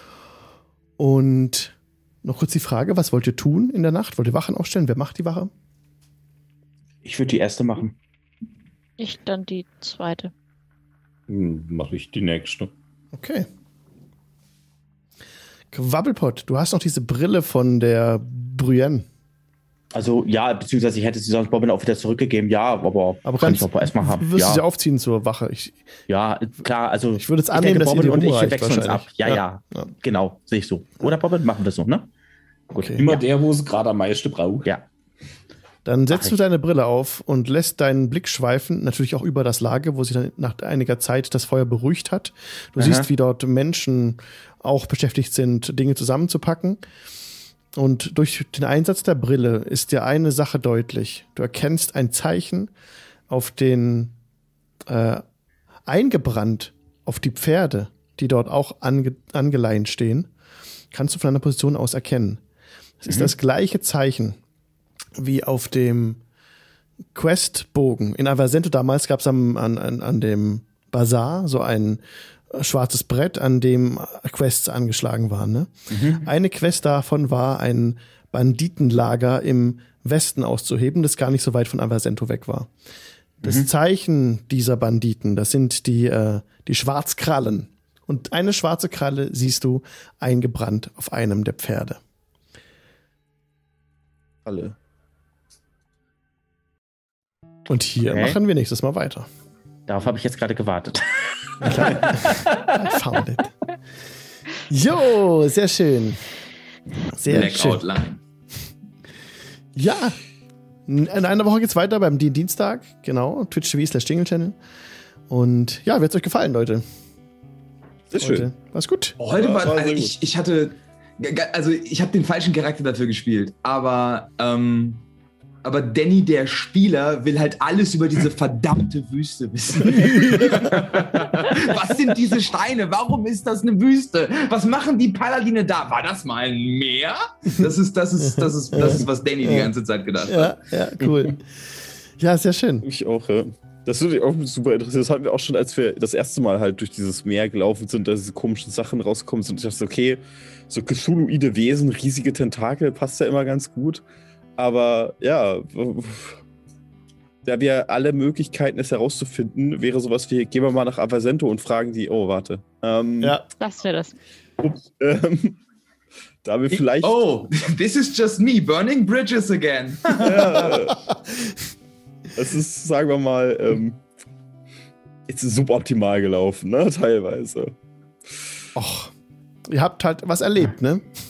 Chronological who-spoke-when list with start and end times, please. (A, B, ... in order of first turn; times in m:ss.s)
0:01.0-0:05.5 A
0:07.0-0:08.0 B
0:09.0-0:10.3 C
0:11.3-0:12.7 D
0:13.1-0:13.5 A
0:15.7-0:19.1 A
0:19.9-0:24.6 B
0:23.2-0:25.9 A
0:26.1-0:32.1 B
0:27.2-0:29.9 A
0:32.7-0:33.2 B
0:32.8-0:33.0 A
0:33.0-0:34.7 D
0:35.8-0:46.8 A
0:36.1-0:36.4 B
0:42.8-0:43.1 B
0:47.8-0:52.7 A
0:53.3-0:54.1 A
0:54.9-0:55.2 A
0:55.9-1:00.3 A
1:00.9-1:02.4 A
1:03.0-1:04.4 A
1:05.2-1:06.2 A
1:07.2-1:22.7 A
1:15.9-1:16.3 B
1:23.4-1:32.0 A
1:34.5-1:34.7 E
1:37.7-1:39.3 A
1:38.1-1:38.4 B
1:39.9-1:42.2 B
1:41.6-1:43.5 A
1:44.7-1:46.2 A
1:47.1-1:47.8 A
1:47.3-1:48.2 F
1:49.8-1:50.2 A
1:50.9-1:54.6 A
1:55.3-1:56.8 A
1:58.1-1:58.5 E
1:58.2-1:59.2 A
1:59.2-2:05.0 F
1:59.3-2:00.2 E
2:05.6-2:20.6 F
2:10.3-2:10.6 A
2:18.7-2:19.7 A
2:20.3-2:21.4 A
2:22.2-2:22.9 A
2:22.8-2:34.0 E
2:34.6-2:36.4 E
2:37.4-2:43.4 E
2:43.6-2:44.2 C
2:44.6-2:45.6 E
2:46.4-2:47.2 E
2:47.0-2:50.8 F
2:50.2-2:51.0 E
2:52.4-2:54.0 E
2:55.3-2:57.8 E
2:58.8-2:59.1 A
2:59.7-3:01.1 A